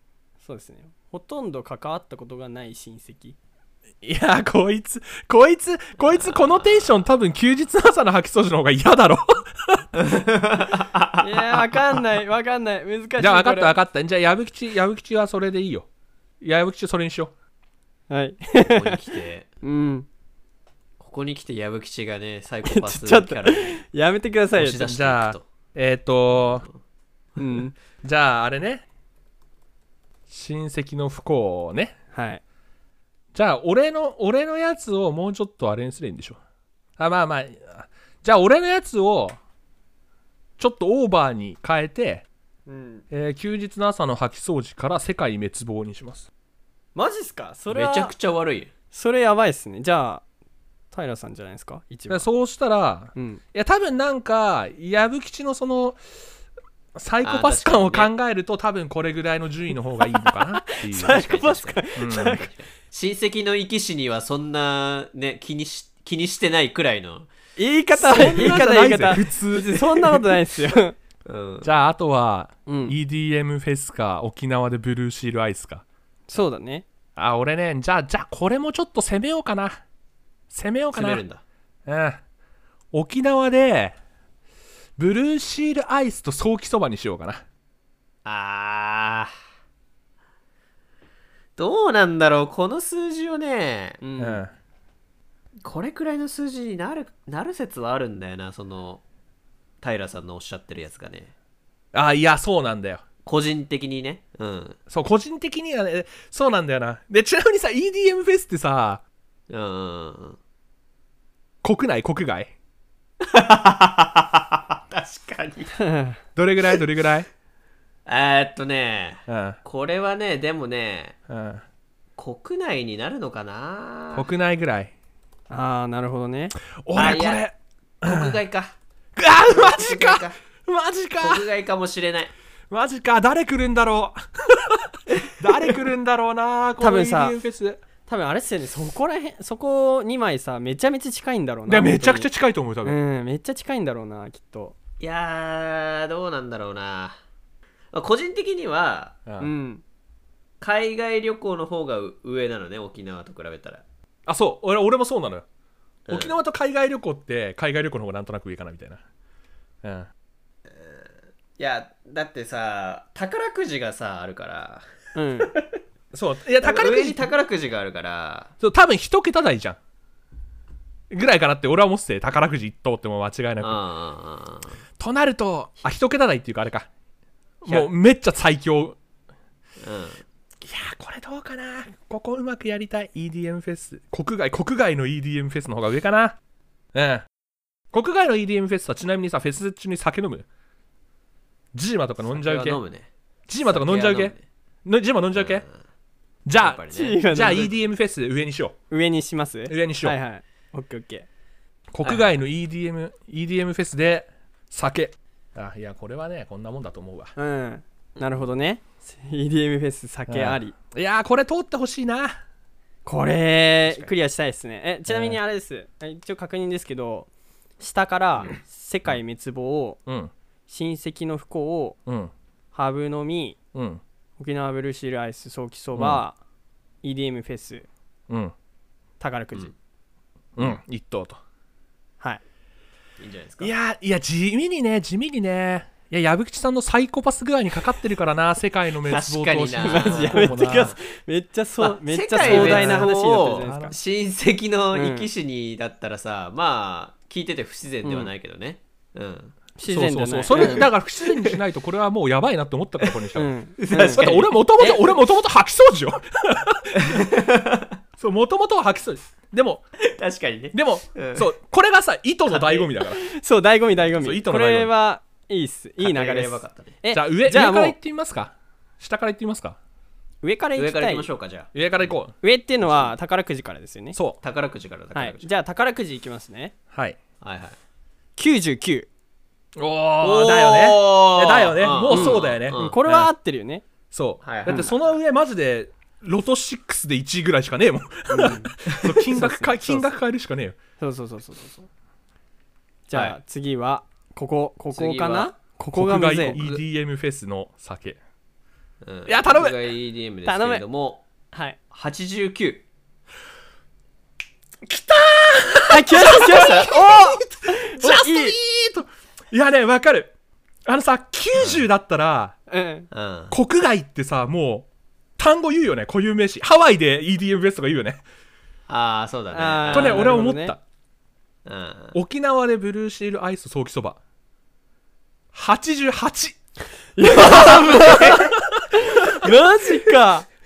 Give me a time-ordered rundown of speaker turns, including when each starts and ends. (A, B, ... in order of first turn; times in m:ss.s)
0:00.4-0:03.4 A
0:04.0-0:09.9 B
0:10.0-0:11.2 C
0:11.2-0:13.8 A
0:13.2-0:15.9 B
0:16.4-0:17.3 B
0:18.1-0:19.0 A
0:18.6-0:19.5 C
0:19.6-0:20.1 A
0:21.0-0:23.8 C
0:22.6-0:24.9 A
0:24.6-0:25.5 C
0:24.8-0:26.6 B
0:26.5-0:26.8 C
0:27.4-0:27.7 A
0:28.0-0:28.8 B
0:30.3-0:32.0 B
0:32.1-0:32.4 A
0:33.3-0:36.4 B
0:37.0-0:39.4 B
0:40.6-0:42.2 B
0:42.7-0:43.0 A
0:43.1-0:46.3 B
0:47.0-0:48.1 A
0:47.7-0:48.7 C
0:48.9-0:50.2 A
0:50.9-0:52.3 A
0:52.1-0:56.0 B
0:53.1-0:53.4 A
0:57.0-1:01.2 B
0:57.2-0:58.1 C
1:00.2-1:02.5 A
1:00.9-1:07.3 C
1:02.0-1:02.4 B
1:07.6-1:11.0 A
1:08.0-1:10.4 B
1:11.2-1:11.7 C
1:11.6-1:15.8 B
1:12.7-1:13.0 A
1:16.3-1:16.9 A
1:17.2-1:19.8 B
1:20.5-1:21.2 B
1:20.9-1:21.4 C
1:21.9-1:22.2 B
1:22.9-1:24.0 B
1:25.0-1:27.4 B
1:28.2-1:29.3 C
1:31.6-1:34.0 C
1:34.0-1:34.4 A
1:34.2-1:34.5 B
1:35.6-1:39.0 C
1:39.8-1:41.3 C
1:41.9-1:43.0 B
1:43.2-1:44.8 C
1:44.9-1:49.0 B
1:49.5-1:50.4 C
1:51.6-1:52.5 B
1:53.2-1:55.8 C
1:55.8-1:56.2 A
1:56.4-1:57.3 B
1:58.1-2:01.2 C
1:59.3-1:59.6 B
2:01.3-2:01.6 B
2:02.2-2:04.3 C
2:04.1-2:04.9 B
2:05.5-2:06.6 A
2:06.8-2:08.4 B
2:06.9-2:07.5 C
2:08.0-2:08.8 C
2:09.2-2:11.5 B
2:09.4-2:10.4 C
2:11.2-2:12.3 C
2:12.7-2:17.8 B
2:16.8-2:17.4 A
2:18.1-2:22.3 A
2:21.7-2:23.0 B
2:22.8-2:24.8 A
2:25.0-2:27.2 C
2:27.9-2:29.2 C
2:29.2-2:29.5 B
2:29.4-2:29.8 A
2:30.6-2:33.8 C
2:34.2-2:35.4 B
2:36.1-2:36.4 C
2:36.1-2:39.0 B
2:39.8-2:40.1 B
2:40.7-2:44.9 C
2:45.1-2:45.6 A
2:45.4-2:45.8 C
2:46.1-2:47.3 B
2:46.6-2:48.5 C
2:48.6-2:49.8 B
2:51.1-2:53.8 B
2:53.6-2:54.8 C
2:55.0-2:56.9 B
2:57.6-2:59.0 B
2:59.8-3:00.2 C
3:00.6-3:06.4 B
3:06.9-3:07.2 B
3:07.9-3:10.5 B
3:11.7-3:12.8 B
3:12.2-3:13.1 C
3:13.5-3:15.6 B
3:13.6-3:14.4 C
3:15.4-3:15.8 C
3:16.5-3:18.8 B
3:16.6-3:17.2 C
3:16.9-3:17.7 A
3:18.9-3:21.3 A
3:19.7-3:20.2 B
3:21.9-3:27.3 B
3:22.0-3:22.3 C
3:27.4-3:30.8 A
3:30.3-3:32.4 B
3:33.0-3:40.0 A
3:35.1-3:35.4 B
3:40.0-3:40.3 B
3:40.7-3:42.0 A
3:42.0-3:42.3 B
3:42.7-3:43.6 A
3:43.7-3:44.0 B
3:44.4-3:46.4 A
3:46.0-3:46.2 B
3:47.0-3:47.9 A
3:48.3-3:48.5 B
3:49.2-3:49.7 A
3:50.6-3:51.4 B
3:53.2-3:53.7 C
3:53.6-4:01.0 B
3:59.0-4:01.0 C
3:59.8-4:04.0 A
4:01.8-4:09.5 C
4:02.4-4:03.9 B
4:04.9-4:05.3 A
4:08.0-4:08.3 A
4:09.8-4:10.9 A
4:09.9-4:17.2 B
4:10.5-4:11.6 C
4:13.3-4:15.0 A
4:13.8-4:14.5 C
4:17.0-4:18.0 C
4:18.2-4:19.9 B
4:20.0-4:21.5 C
4:20.7-4:23.2 B
4:22.5-4:22.9 C
4:23.0-4:28.0 A
4:24.1-4:24.9 B
4:26.0-4:27.0 C
4:27.1-4:29.8 B
4:30.4-4:31.2 A
4:30.8-4:32.1 C
4:31.7-4:32.4 B
4:32.4-4:34.2 A
4:32.9-4:33.1 C
4:34.1-4:34.4 B
4:34.4-4:35.5 C
4:35.1-4:36.7 A
4:36.9-4:37.2 B
4:37.4-4:37.8 C
4:38.4-4:39.1 A
4:39.8-4:43.3 B
4:40.2-4:43.0 C
4:42.1-4:43.8 A
4:44.1-4:50.8 B
4:44.4-4:45.0 C
4:48.3-4:48.8 A
4:48.9-4:49.2 C
4:49.3-4:50.1 A
4:51.0-4:51.9 A
4:53.1-4:56.6 A
4:54.9-4:55.5 C
4:55.9-4:58.2 B
4:56.5-4:56.8 C
4:59.0-5:01.2 C
4:59.2-4:59.8 B
5:00.4-5:00.8 A
5:01.5-5:01.8 A
5:01.9-5:02.8 C
5:04.8-5:10.3 B
5:05.9-5:08.6 A
5:06.5-5:06.8 C
5:10.9-5:12.6 B
5:11.6-5:11.8 C
5:12.7-5:13.1 A
5:13.1-5:13.5 C
5:13.5-5:14.9 B
5:15.4-5:18.2 B
5:18.9-5:20.4 C
5:19.5-5:20.8 A
5:19.9-5:20.8 B
5:21.6-5:22.2 C
5:22.1-5:24.2 B
5:25.5-5:26.6 B
5:27.2-5:30.5 A
5:27.4-5:28.5 C
5:27.4-5:29.5 B